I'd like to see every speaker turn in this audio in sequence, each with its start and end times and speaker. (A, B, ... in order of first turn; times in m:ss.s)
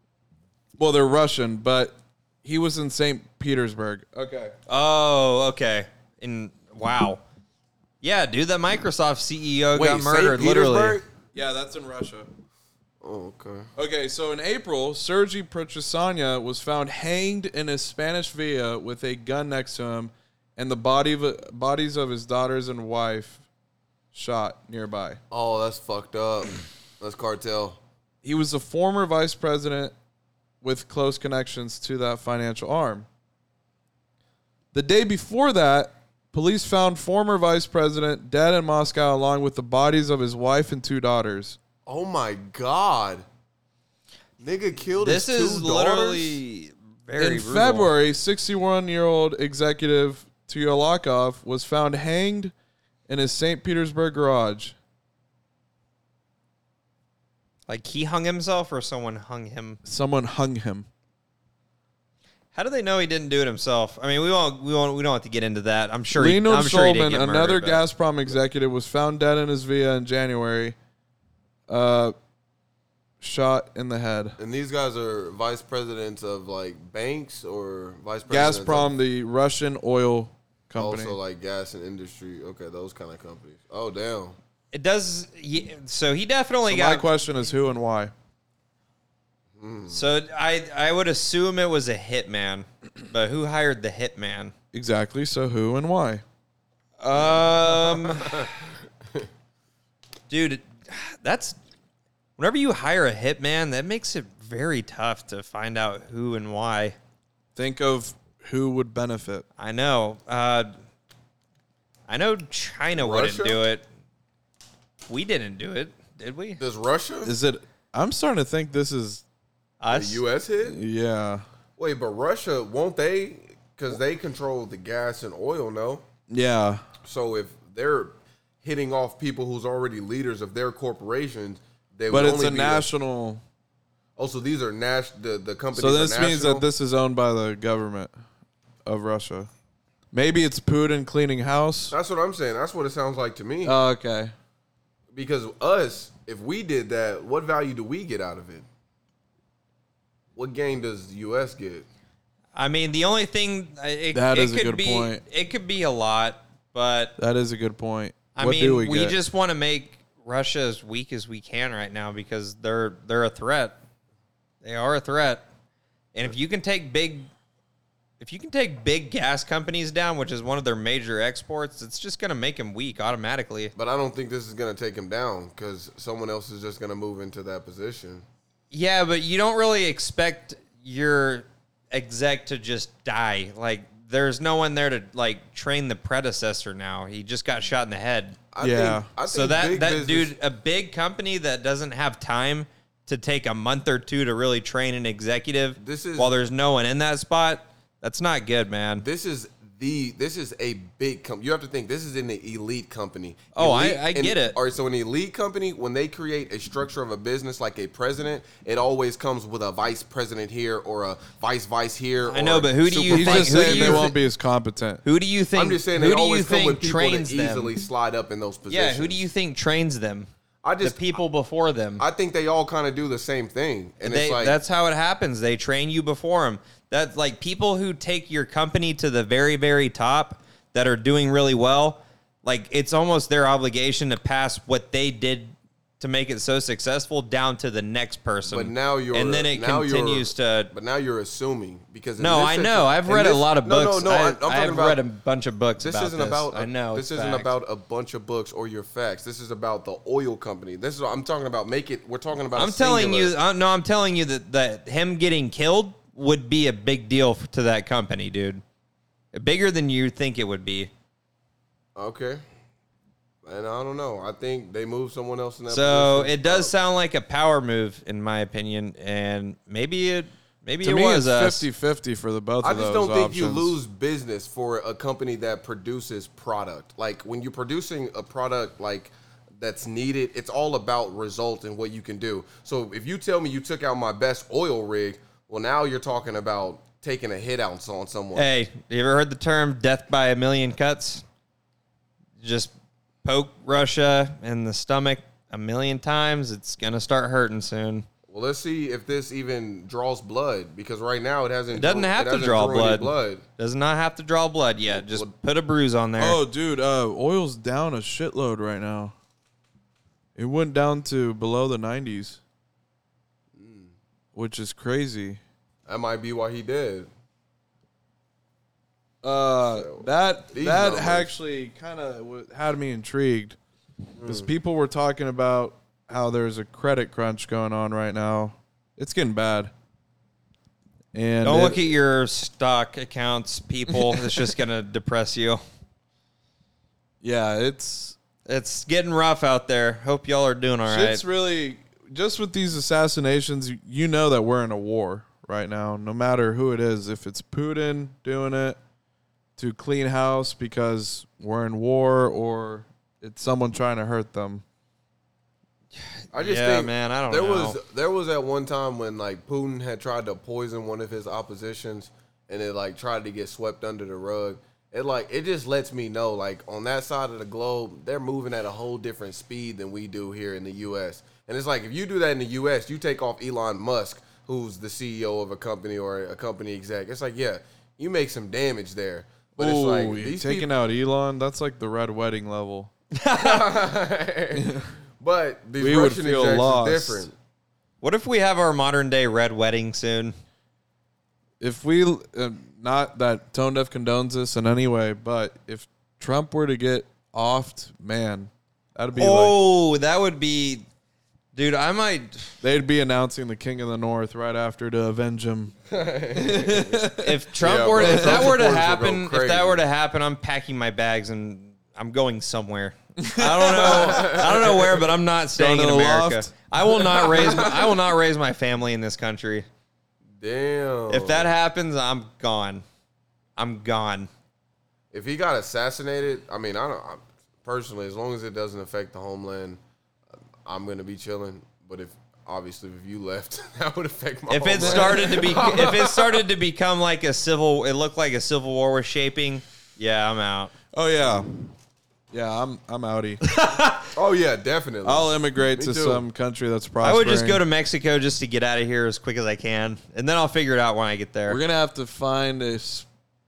0:00.8-0:04.5 A
0:04.7-0:07.2 B
0:08.0-0:11.0 B
0:09.7-0:11.0 C
0:11.3-0:12.3 A
0:13.0-0:13.7 C
0:13.8-0:23.4 A
0:24.1-0:25.2 A
0:25.3-0:27.8 C
0:28.2-0:29.9 A
0:30.6-0:33.1 A
0:34.7-0:41.6 A
0:41.9-0:43.2 C
0:44.4-0:46.4 C
0:45.0-0:47.9 B
0:47.2-0:52.5 A
0:53.1-0:54.8 A
0:57.7-0:59.8 B
0:59.8-1:00.9 A
1:02.5-1:07.8 B
1:06.2-1:10.8 A
1:11.7-1:12.1 A
1:13.2-1:14.4 A
1:14.4-1:18.9 C
1:18.3-1:21.2 A
1:20.8-1:24.4 C
1:24.7-1:27.0 B
1:26.6-1:28.1 A
1:29.6-1:30.0 C
1:29.9-1:34.5 B
1:34.7-1:36.2 A
1:37.0-1:38.5 B
1:38.2-1:38.5 C
1:40.3-1:41.6 B
1:42.4-1:47.0 B
1:47.5-1:49.4 A
1:49.6-1:50.7 B
1:52.1-1:53.8 B
1:52.9-1:53.6 C
1:55.1-1:56.6 B
1:56.6-1:57.3 C
1:57.2-1:59.2 A
1:59.8-2:00.2 B
1:59.9-2:00.8 C
2:00.6-2:01.4 A
2:01.8-2:06.0 C
2:06.3-2:06.8 A
2:07.0-2:12.9 C
2:12.1-2:13.4 A
2:14.2-2:16.6 C
2:15.7-2:18.1 A
2:18.8-2:19.5 A
2:20.1-2:21.9 A
2:21.9-2:23.8 C
2:23.6-2:24.3 A
2:25.1-2:28.6 C
2:30.4-2:31.8 C
2:32.5-2:37.1 B
2:34.1-2:35.2 A
2:37.2-2:39.2 A
2:38.4-2:43.7 B
2:44.6-2:45.4 B
2:46.1-2:47.3 B
2:48.2-2:53.7 B
2:53.7-2:58.2 C
2:58.7-3:08.4 B
3:08.5-3:10.3 C
3:08.6-3:09.1 A
3:09.3-3:19.0 B
3:15.8-3:16.3 C
3:19.0-3:34.1 C
3:23.5-3:24.6 B
3:32.2-3:34.1 B
3:33.1-3:35.0 A
3:35.0-3:37.7 B
3:35.5-3:39.2 C
3:38.7-3:40.3 B
3:40.6-3:41.1 C
3:40.8-3:42.0 B
3:42.0-3:44.6 C
3:44.0-4:00.7 B
3:58.5-4:05.0 C
4:02.2-4:07.5 B
4:05.8-4:13.3 C
4:12.6-4:18.6 B
4:19.3-4:20.9 B
4:22.0-4:22.4 C
4:23.4-4:26.7 C
4:25.7-4:31.6 B
4:30.8-4:33.8 A
4:32.6-4:48.5 C
4:48.3-4:51.2 B
4:52.4-4:52.7 B
4:53.2-4:58.0 B
4:58.3-5:03.4 C
5:01.7-5:06.4 B
5:04.9-5:05.3 C
5:06.2-5:09.1 A
5:10.4-5:12.4 A
5:13.5-5:13.9 C
5:14.3-5:15.4 A
5:15.9-5:17.1 C
5:19.2-5:23.6 A
5:19.7-5:21.3 C
5:24.2-5:24.5 C
5:24.2-5:29.7 A
5:31.1-5:31.8 A
5:31.4-5:35.6 B
5:34.0-5:34.4 A
5:37.2-5:38.2 A
5:38.4-5:41.2 B
5:40.8-5:48.8 A
5:49.6-5:54.6 A
5:56.3-6:20.7 C
5:56.3-5:57.8 B
6:19.6-6:22.9 A
6:23.1-6:23.8 B
6:23.3-6:27.3 C
6:24.5-6:24.9 A
6:25.8-6:27.3 A
6:28.0-6:30.3 B
6:31.6-6:39.5 A
6:39.2-6:40.8 B
6:41.5-6:42.5 B
6:42.6-6:45.7 A
6:45.9-6:49.8 C
6:46.3-6:47.4 A
6:47.1-6:59.6 B
6:48.0-6:48.6 A
6:53.2-6:54.7 A
6:53.7-6:55.0 C
6:55.5-6:57.6 A
6:57.2-6:58.0 C
7:00.4-7:01.5 C
7:01.1-7:02.8 B
7:03.6-7:04.3 B
7:05.1-7:09.8 C
7:10.6-7:16.4 C
7:14.5-7:20.7 B
7:14.8-7:15.7 A
7:20.9-7:21.5 A
7:22.3-7:23.4 A
7:23.4-7:24.1 B
7:24.1-7:26.2 C
7:25.0-7:27.6 A
7:27.0-7:31.6 B
7:31.5-7:33.1 A